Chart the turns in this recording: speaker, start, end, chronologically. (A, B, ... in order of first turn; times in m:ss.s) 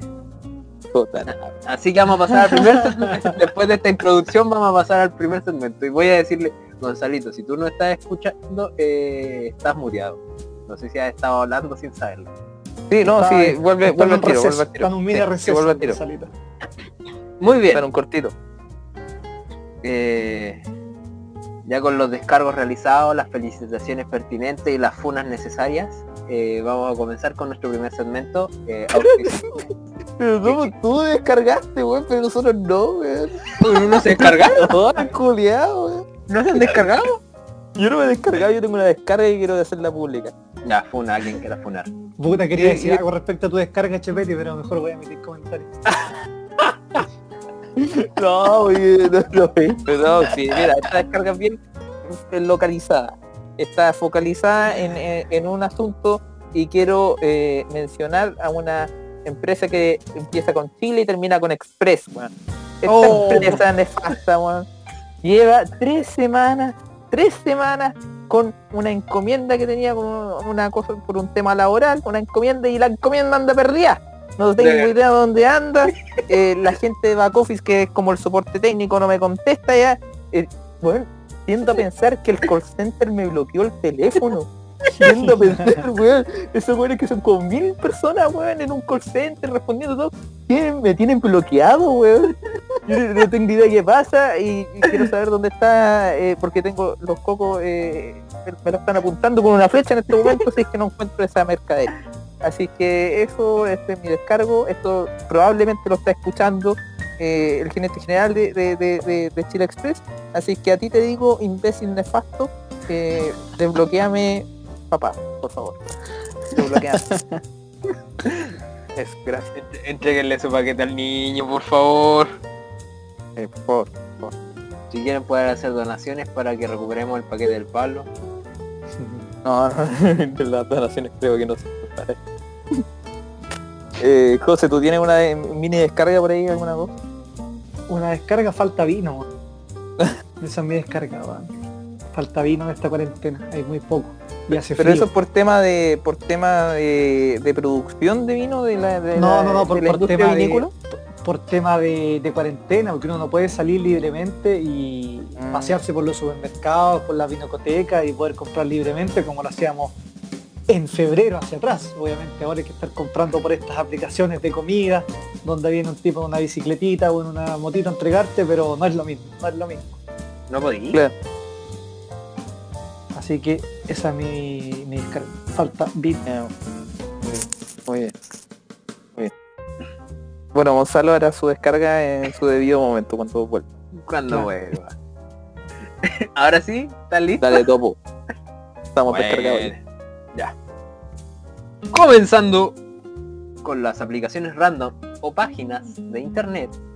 0:00.9-0:01.6 A
0:01.6-0:12.3 B
0:12.9-0:16.0 A
0:13.0-0:16.3 C
0:17.4-0:17.8 B
0:17.7-0:18.3 A
0:19.8-0:20.6 B
0:21.7-0:29.6 B
0:29.0-0:29.6 A
0:30.2-0:36.9 A
0:30.4-0:30.7 B
0:33.6-0:34.7 B
0:36.3-0:37.2 B
0:37.8-0:40.3 A
0:40.6-0:41.9 B
0:42.2-0:45.8 C
0:42.5-0:43.0 A
0:47.8-1:04.7 A
1:02.8-1:03.6 C
1:05.2-1:55.8 A
1:14.6-1:14.9 B
1:25.0-1:25.8 C
1:56.5-1:57.1 A
1:56.8-1:57.4 C
1:58.9-1:59.5 A
1:59.5-2:02.3 B
2:03.4-2:04.3 A
2:04.9-2:08.1 B
2:09.0-2:09.3 C
2:09.4-2:12.2 A
2:14.0-2:16.9 A
2:17.9-2:19.2 C
2:20.4-2:21.5 C
2:22.1-2:25.1 C
2:24.6-2:30.7 A
2:29.1-2:39.9 C
2:35.4-2:35.8 A
2:40.7-2:49.9 C
2:50.5-2:51.0 B
2:53.1-2:56.2 C
2:56.2-2:56.5 A
2:57.2-2:58.1 A
3:00.5-3:03.7 A
3:04.0-3:04.9 B
3:06.0-3:07.6 B
3:07.4-3:08.0 A
3:08.9-3:09.7 A
3:09.1-3:09.8 B
3:11.9-3:12.8 B
3:13.6-3:16.7 B